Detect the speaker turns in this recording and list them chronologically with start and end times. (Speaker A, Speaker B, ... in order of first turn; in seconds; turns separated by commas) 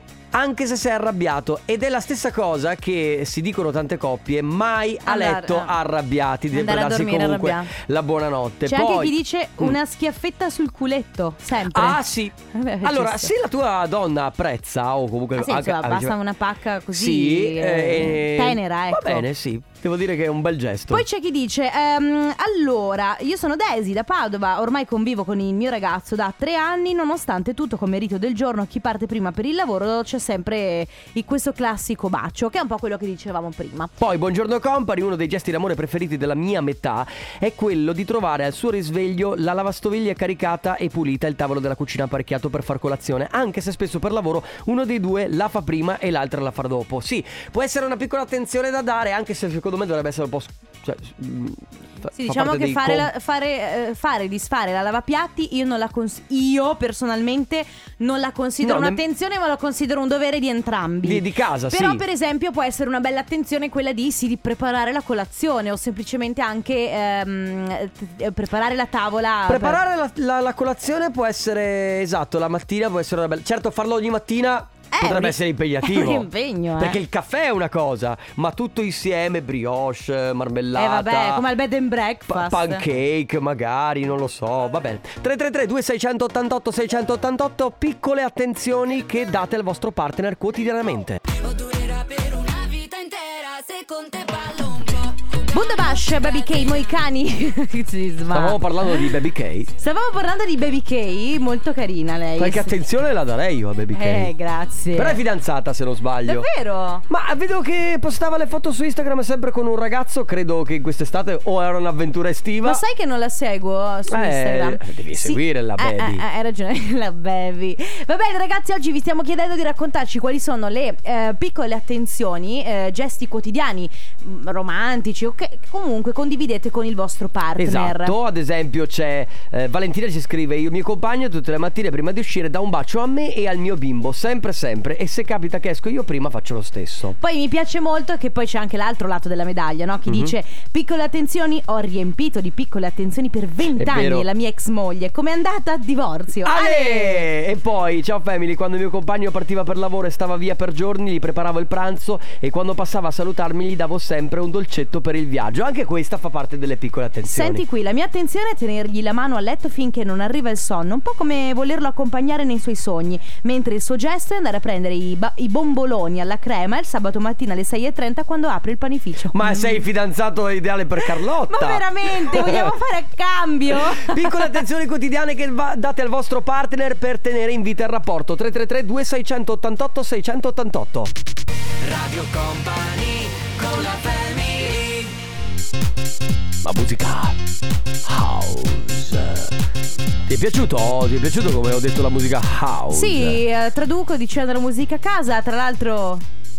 Speaker A: 0.3-9.8, Speaker B: 5.0-5.8, Speaker B: 6.5-7.7, Speaker B: 8.7-12.0, Speaker A: 11.7-16.2, Speaker B: 12.5-13.3, Speaker B: 15.4-19.3, Speaker A: 16.9-21.1, Speaker B: 20.9-33.9, Speaker A: 34.0-53.1, Speaker B: 52.1-69.8, Speaker A: 58.6-59.0, Speaker A: 61.0-62.0, Speaker A: 69.5-81.5, Speaker B: 74.9-77.0, Speaker B: 80.8-82.8, Speaker A: 82.3-91.2, Speaker C: 91.3-95.9, Speaker B: 95.5-99.1, Speaker A: 98.3-99.7, Speaker B: 99.8-102.8, Speaker A: 102.4-104.3, Speaker B: 103.9-105.2, Speaker A: 104.9-106.5, Speaker B: 106.3-107.0, Speaker A: 107.1-112.8, Speaker B: 112.6-128.2, Speaker A: 114.1-116.2, Speaker A: 127.6-137.2, Speaker B: 137.2-147.3, Speaker A: 140.1-140.3, Speaker A: 143.8-144.3, Speaker A: 146.4-157.6, Speaker B: 157.2-169.8, Speaker A: 169.3-172.8, Speaker B: 171.0-174.6, Speaker A: 173.7-181.1, Speaker C: 181.8-185.1, Speaker A: 186.6-187.4, Speaker A: 188.0-189.6, Speaker A: 190.3-193.4, Speaker B: 192.9-196.2